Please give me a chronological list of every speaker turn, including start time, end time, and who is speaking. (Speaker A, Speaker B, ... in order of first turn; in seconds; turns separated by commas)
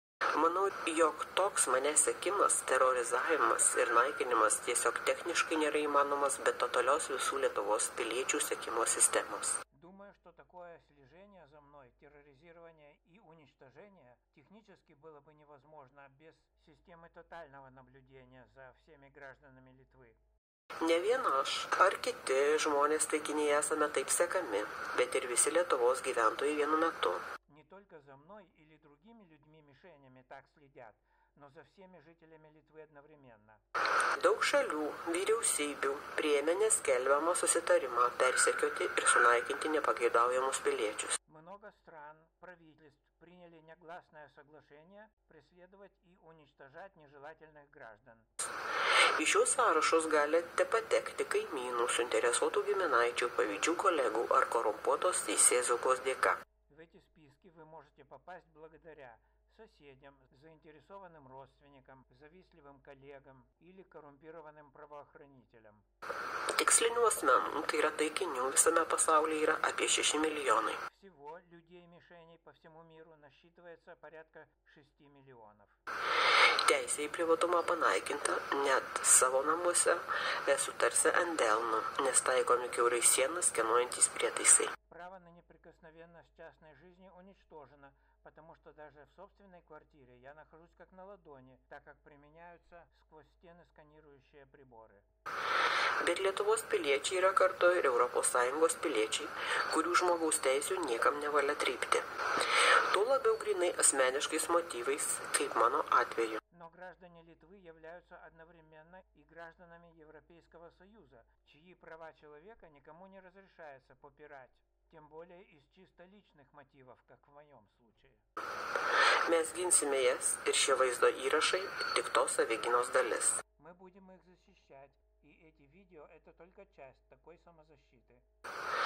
Speaker A: 0.3-9.6, Speaker B: 9.7-20.2, Speaker A: 20.8-27.2, Speaker B: 27.5-33.6, Speaker A: 34.2-41.2, Speaker B: 41.2-48.3, Speaker A: 49.2-56.4, Speaker B: 56.7-65.8, Speaker A: 66.5-70.8, Speaker B: 70.8-75.8, Speaker A: 76.7-84.7, Speaker B: 84.9-95.1, Speaker A: 96.0-102.1, Speaker A: 102.9-106.4, Speaker B: 106.5-118.2, Speaker A: 119.2-123.4, Speaker B: 123.5-128.2